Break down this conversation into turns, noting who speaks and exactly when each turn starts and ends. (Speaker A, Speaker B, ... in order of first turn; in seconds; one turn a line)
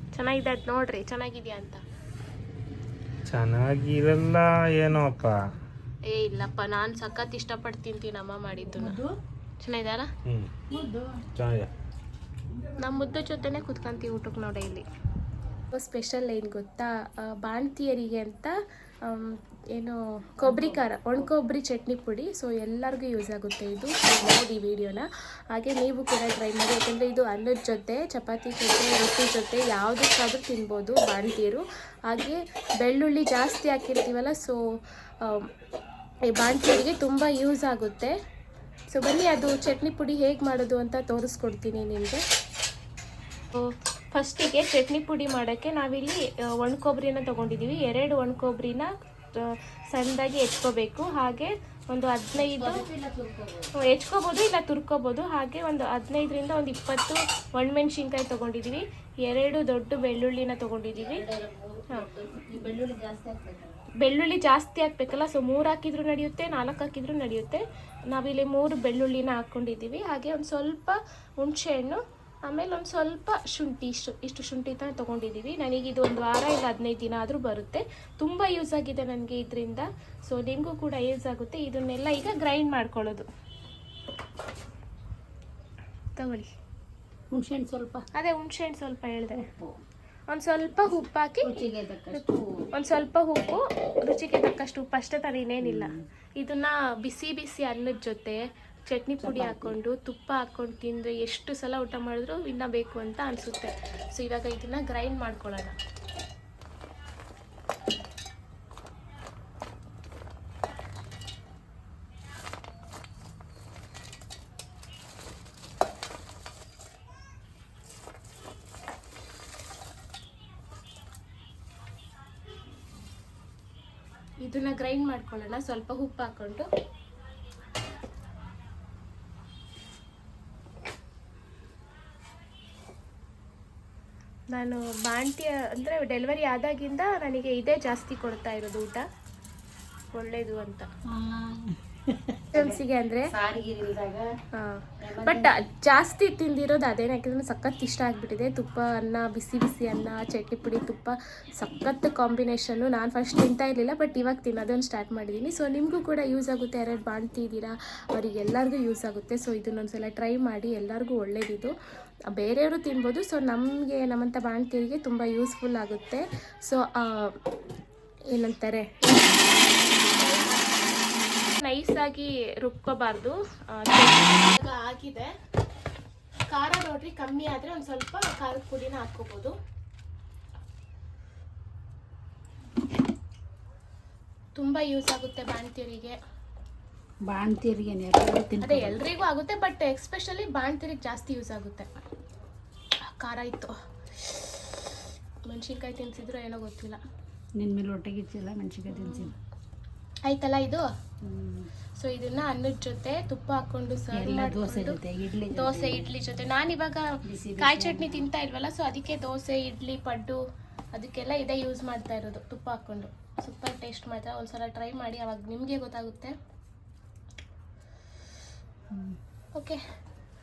Speaker A: 0.1-1.8
Speaker B: 3.2-5.3
Speaker A: 6.0-9.0
Speaker C: 8.8-9.1
Speaker A: 9.6-10.1
Speaker C: 10.7-11.2
Speaker B: 11.3-11.7
Speaker A: 12.8-14.9
Speaker A: 15.7-18.5
Speaker A: 19.0-34.6
Speaker C: 20.4-21.3
Speaker A: 35.2-35.5
Speaker A: 36.3-38.1
Speaker A: 38.9-42.2
Speaker A: 43.5-52.8
Speaker C: 52.3-53.7
Speaker A: 53.8-61.2
Speaker C: 60.9-63.9
Speaker A: 64.0-83.3
Speaker A: 86.2-86.5
Speaker C: 87.3-88.0
Speaker A: 88.1-89.4
Speaker C: 89.3-89.8
Speaker A: 90.3-91.5
Speaker C: 91.4-92.5
Speaker A: 92.7-105.7
Speaker C: 95.6-96.0
Speaker C: 99.2-99.8
Speaker A: 124.4-126.7
Speaker A: 134.5-139.0
Speaker A: 140.1-140.9
Speaker C: 141.1-144.3
Speaker A: 142.5-143.3
Speaker A: 144.5-161.7
Speaker C: 145.0-145.5
Speaker A: 162.3-167.3
Speaker A: 168.3-169.4
Speaker A: 170.1-170.6
Speaker A: 171.6-175.3
Speaker A: 176.5-179.5
Speaker A: 184.6-186.2
Speaker C: 187.2-189.0
Speaker A: 188.6-192.1
Speaker A: 193.1-194.9
Speaker A: 195.5-197.0
Speaker C: 197.6-199.3
Speaker A: 198.9-199.3
Speaker A: 200.3-200.8
Speaker C: 201.2-201.7
Speaker A: 201.9-205.0
Speaker C: 204.1-206.1
Speaker A: 205.5-207.1
Speaker C: 207.2-208.3
Speaker A: 207.6-210.4
Speaker A: 210.9-216.3
Speaker C: 218.9-219.2